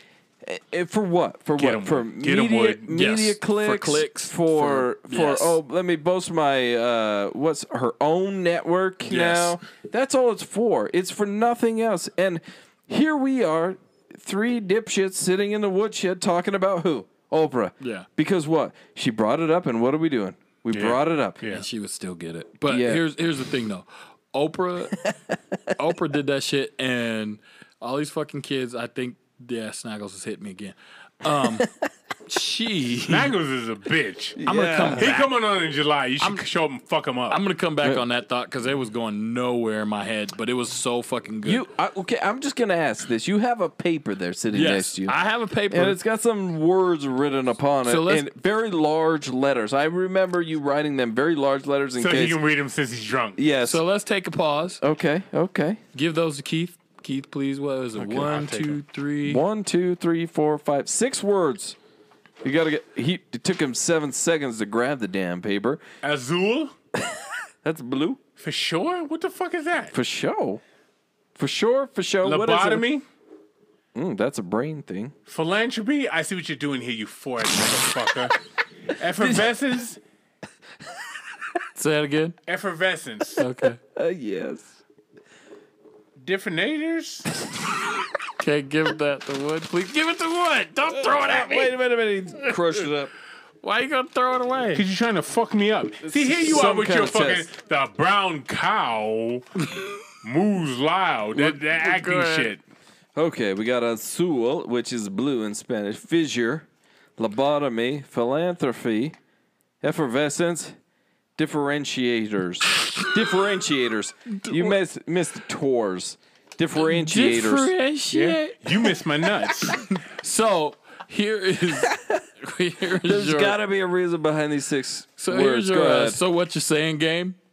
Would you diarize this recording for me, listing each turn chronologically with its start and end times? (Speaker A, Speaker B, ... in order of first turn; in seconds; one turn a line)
Speaker A: 0.4-21.4
Speaker B: 1.6-2.9
Speaker C: 2.9-5.6
Speaker C: 9.1-9.6
Speaker C: 17.8-18.1
Speaker B: 20.7-21.6
Speaker C: 21.5-25.1
Speaker A: 22.7-23.0
Speaker C: 25.8-31.7
Speaker C: 32.3-33.3
Speaker B: 33.1-34.4
Speaker A: 34.4-35.1
Speaker C: 34.5-35.4
Speaker B: 35.0-37.4
Speaker C: 37.3-41.6
Speaker A: 41.4-45.1
Speaker C: 44.5-46.0
Speaker A: 45.7-52.4
Speaker C: 47.8-48.3
Speaker B: 52.0-53.4
Speaker A: 53.4-53.8
Speaker C: 53.6-54.8
Speaker A: 54.8-55.8
Speaker C: 55.9-59.4
Speaker A: 58.0-58.7
Speaker A: 59.2-61.8
Speaker A: 62.4-65.8
Speaker B: 66.0-66.7
Speaker A: 67.6-68.2
Speaker B: 68.4-69.9
Speaker A: 69.9-70.6
Speaker A: 71.3-72.8
Speaker B: 72.2-73.0
Speaker A: 73.9-75.1
Speaker B: 75.3-78.4
Speaker B: 78.9-80.0
Speaker C: 81.7-82.4
Speaker B: 82.5-83.4
Speaker C: 83.4-83.8
Speaker A: 83.9-84.7
Speaker B: 86.2-87.3
Speaker C: 88.4-91.7
Speaker A: 91.0-93.1
Speaker C: 92.4-92.8
Speaker C: 93.6-94.8
Speaker B: 94.7-99.5
Speaker A: 96.1-97.5
Speaker C: 99.6-100.0
Speaker B: 100.2-102.6
Speaker C: 101.3-102.5
Speaker A: 103.2-106.7
Speaker A: 107.2-109.2
Speaker A: 109.8-110.7
Speaker A: 111.4-117.7
Speaker C: 114.4-114.8
Speaker C: 116.8-118.9
Speaker B: 118.1-119.8
Speaker C: 119.7-123.6
Speaker A: 121.8-122.2
Speaker A: 123.0-126.2
Speaker C: 125.2-127.4